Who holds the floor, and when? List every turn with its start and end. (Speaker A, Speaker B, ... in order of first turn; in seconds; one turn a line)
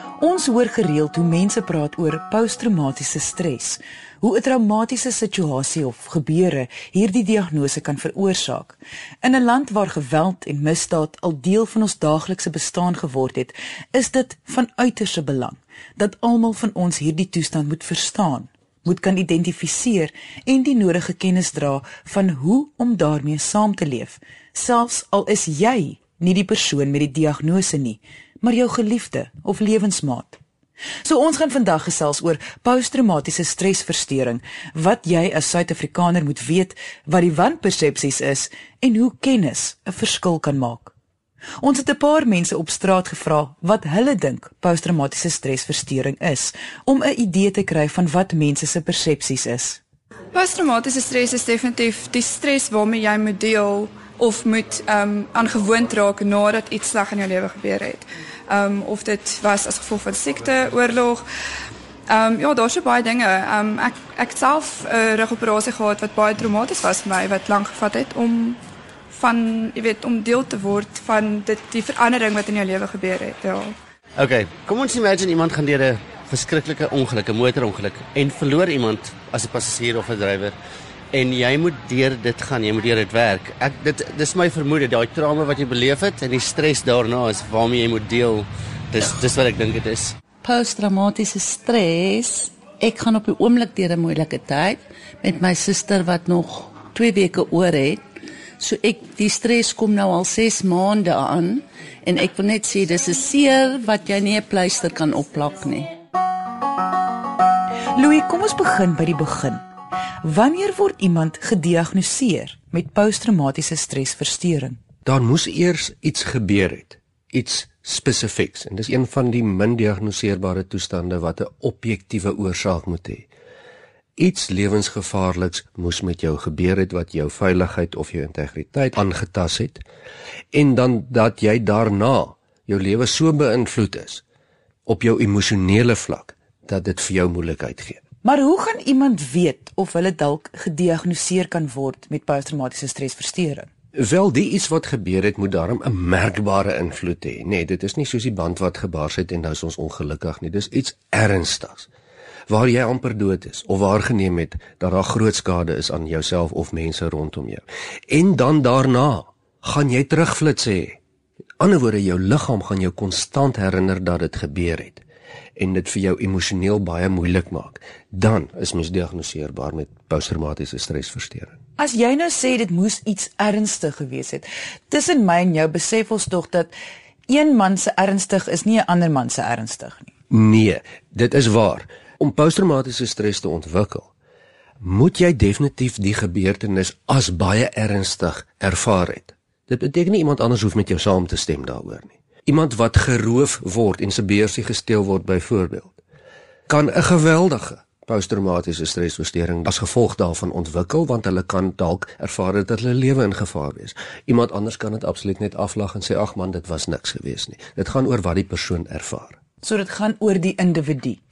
Speaker A: 0.2-30.4
Speaker A: 31.0-40.9
Speaker A: 41.6-49.8
Speaker B: 50.3-61.2
Speaker B: 62.1-68.6
Speaker B: 69.1-73.7
Speaker C: 74.2-80.5
Speaker C: 81.1-90.2
Speaker D: 90.4-98.0
Speaker D: 98.6-105.9
Speaker A: 107.9-109.6
Speaker A: 110.2-114.8
Speaker E: 115.0-123.3
Speaker E: 124.2-129.8
Speaker E: 130.5-134.2
Speaker E: 134.8-138.0
Speaker A: 138.2-143.7
Speaker E: 143.9-151.9
Speaker E: 152.5-161.0
Speaker E: 161.6-165.0
Speaker E: 165.6-171.6
Speaker A: 171.8-176.7
Speaker A: 177.3-180.1
Speaker E: 180.3-184.1
Speaker E: 184.8-196.0
Speaker E: 196.7-209.4
Speaker A: 209.6-211.2